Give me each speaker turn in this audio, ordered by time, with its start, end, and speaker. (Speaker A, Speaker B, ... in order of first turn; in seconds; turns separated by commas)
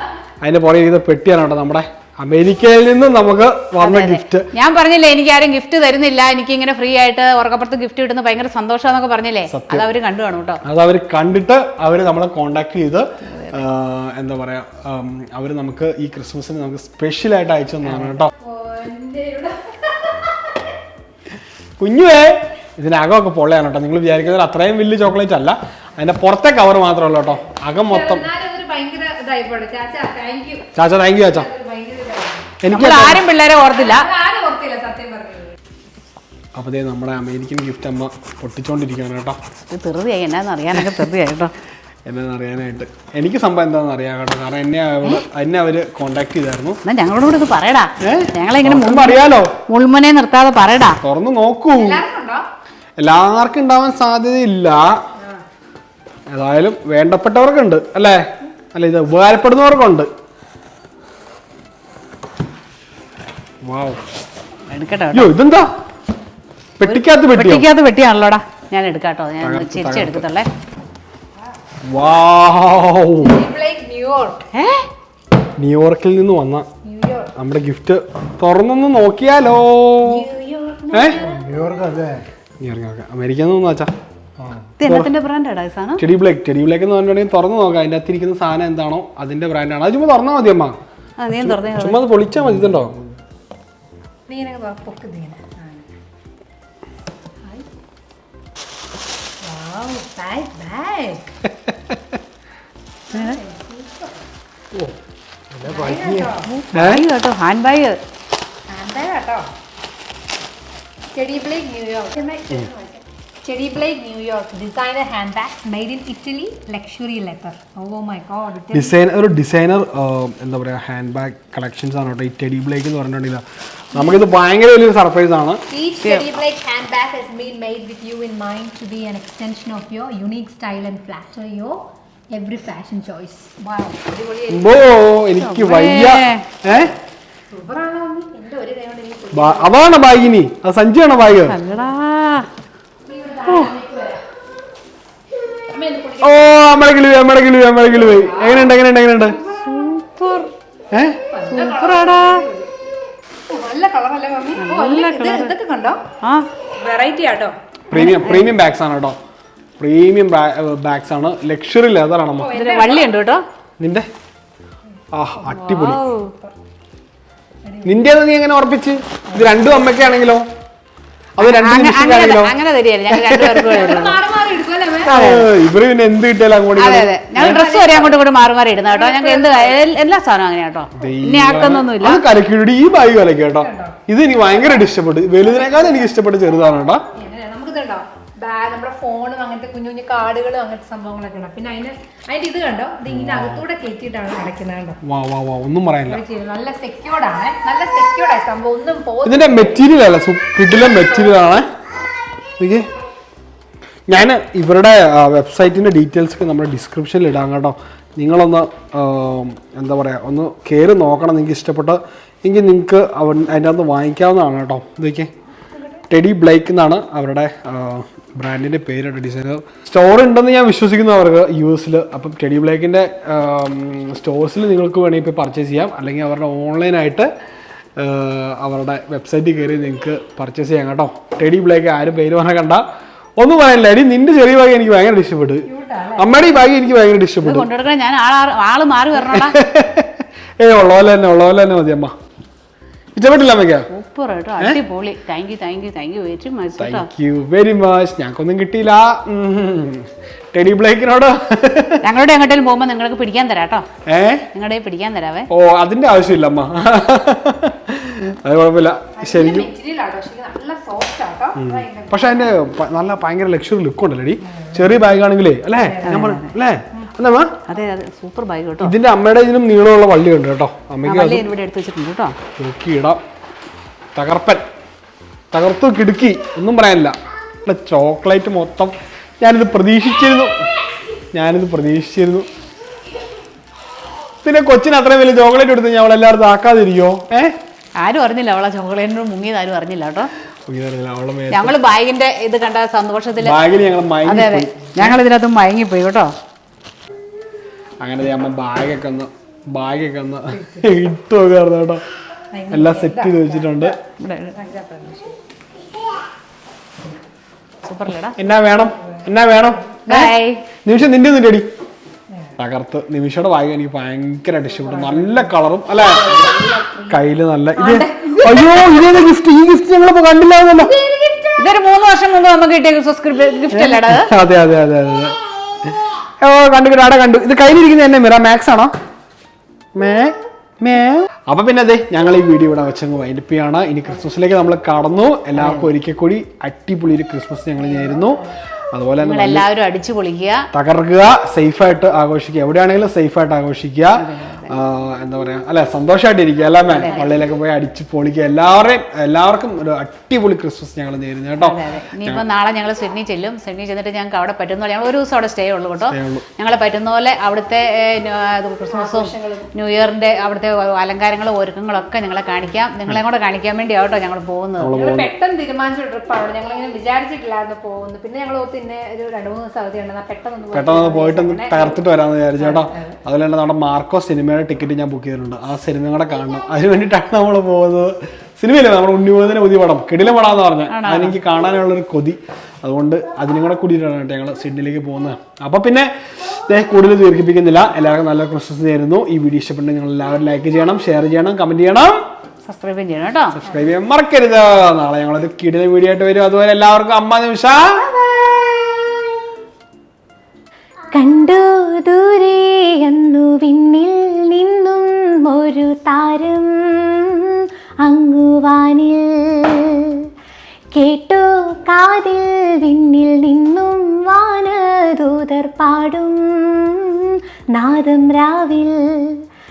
Speaker A: 0.4-4.5, Speaker B: 3.8-10.6, Speaker A: 9.5-9.9, Speaker A: 10.6-18.3, Speaker B: 13.3-13.6, Speaker B: 17.8-18.2, Speaker C: 18.4-20.5, Speaker A: 21.8-28.2, Speaker C: 27.9-32.5, Speaker A: 30.8-31.5, Speaker A: 32.6-33.2, Speaker B: 32.7-34.1, Speaker C: 33.6-35.5, Speaker A: 36.5-39.4, Speaker B: 39.7-41.5, Speaker A: 42.0-46.8, Speaker B: 46.8-51.0, Speaker A: 48.0-49.5, Speaker A: 51.0-52.0, Speaker C: 51.7-52.4, Speaker A: 53.0-55.0, Speaker C: 55.2-55.4, Speaker A: 56.3-60.1, Speaker A: 63.6-64.0, Speaker B: 64.7-65.3, Speaker A: 65.1-65.7, Speaker A: 66.8-67.7, Speaker B: 66.9-70.5, Speaker A: 69.4-70.2, Speaker A: 71.9-73.4, Speaker C: 73.2-74.4, Speaker B: 74.5-74.9, Speaker A: 75.6-76.7, Speaker C: 76.8-77.3, Speaker A: 77.3-80.3, Speaker C: 80.0-81.5, Speaker A: 80.9-81.2, Speaker D: 81.2-82.2, Speaker A: 82.6-83.9, Speaker B: 84.8-86.0, Speaker A: 84.8-85.1, Speaker A: 86.0-90.8, Speaker B: 91.2-92.0, Speaker A: 91.3-92.9, Speaker D: 92.3-93.0, Speaker C: 94.3-95.9, Speaker C: 99.4-101.3, Speaker A: 101.7-102.0, Speaker C: 103.1-104.2, Speaker D: 105.5-106.3, Speaker C: 105.6-106.5, Speaker B: 106.5-108.0, Speaker A: 106.7-107.0, Speaker C: 108.7-109.5, Speaker C: 111.1-119.0, Speaker A: 118.7-125.6, Speaker C: 124.0-124.2, Speaker C: 125.7-134.9, Speaker A: 134.5-136.9, Speaker B: 135.4-136.5, Speaker C: 137.5-140.2, Speaker A: 139.3-141.6, Speaker B: 141.3-142.5, Speaker C: 143.1-144.2, Speaker A: 143.5-143.7, Speaker C: 145.7-146.4, Speaker A: 146.2-149.4, Speaker C: 147.9-149.9, Speaker B: 149.5-150.5, Speaker A: 150.9-151.2, Speaker C: 151.3-152.7, Speaker B: 151.5-152.4, Speaker C: 153.5-156.0, Speaker B: 154.6-155.5, Speaker B: 156.2-156.5, Speaker C: 156.8-157.5, Speaker A: 157.9-159.2, Speaker B: 157.9-158.5, Speaker A: 159.8-162.6, Speaker C: 162.3-163.1, Speaker B: 162.5-163.4, Speaker A: 163.8-164.1, Speaker A: 165.1-166.0, Speaker C: 165.4-166.5, Speaker B: 165.6-166.3, Speaker C: 167.7-168.1, Speaker A: 167.8-170.4, Speaker C: 169.3-169.8, Speaker A: 171.4-172.5, Speaker B: 171.4-174.2, Speaker A: 173.1-173.8, Speaker C: 173.7-175.2, Speaker A: 175.0-177.6, Speaker B: 175.1-175.5, Speaker B: 176.8-182.2, Speaker C: 177.3-178.2, Speaker C: 178.9-179.8, Speaker A: 180.9-187.0, Speaker C: 183.6-184.0, Speaker C: 185.4-186.0, Speaker C: 187.2-195.0, Speaker A: 193.1-193.6, Speaker A: 195.0-196.2, Speaker C: 196.0-199.8, Speaker A: 199.2-201.7, Speaker C: 200.8-201.4, Speaker A: 202.6-202.9, Speaker A: 204.1-215.3, Speaker A: 216.1-227.3, Speaker A: 228.0-232.8, Speaker A: 233.4-237.7, Speaker C: 235.7-236.6, Speaker B: 237.4-239.6, Speaker A: 239.2-242.2, Speaker A: 243.1-243.9, Speaker B: 243.9-247.1, Speaker A: 246.8-252.0, Speaker B: 252.0-253.9, Speaker A: 254.1-254.4, Speaker B: 254.5-255.5, Speaker A: 255.5-259.7, Speaker C: 259.1-262.7, Speaker A: 261.6-267.5, Speaker C: 264.5-265.0, Speaker C: 265.8-266.3, Speaker B: 266.0-266.5, Speaker B: 267.7-268.9, Speaker A: 268.8-271.4, Speaker B: 271.1-272.4, Speaker A: 272.6-273.2, Speaker A: 274.1-274.6, Speaker A: 275.5-280.6, Speaker A: 281.3-282.4, Speaker A: 284.4-287.5, Speaker B: 288.0-290.3, Speaker A: 290.7-291.8, Speaker B: 291.5-293.6, Speaker A: 293.4-295.2, Speaker B: 294.2-296.3, Speaker A: 298.0-302.0, Speaker C: 300.5-301.0, Speaker C: 302.5-304.0, Speaker A: 302.7-303.9, Speaker B: 304.2-304.5, Speaker C: 304.5-305.4, Speaker B: 307.8-308.4, Speaker A: 308.4-310.3, Speaker C: 309.0-309.3, Speaker B: 310.1-310.6, Speaker A: 310.8-311.7, Speaker A: 312.6-316.4, Speaker C: 314.7-317.2, Speaker A: 317.1-320.9, Speaker C: 317.8-319.0, Speaker C: 320.8-321.7, Speaker B: 321.6-324.3, Speaker A: 323.7-328.9, Speaker A: 329.9-339.6, Speaker B: 335.6-335.9, Speaker C: 338.0-338.4, Speaker B: 339.2-340.6, Speaker A: 340.7-352.4, Speaker B: 344.2-344.7, Speaker B: 346.9-347.3, Speaker B: 351.6-364.9, Speaker A: 356.0-356.4, Speaker C: 358.9-359.7, Speaker A: 364.8-365.3, Speaker C: 364.9-372.0, Speaker A: 370.7-392.2, Speaker C: 372.6-373.2, Speaker B: 380.9-381.4, Speaker B: 392.6-393.6, Speaker A: 393.6-398.0, Speaker E: 398.1-399.4, Speaker E: 401.1-410.3, Speaker E: 410.9-419.4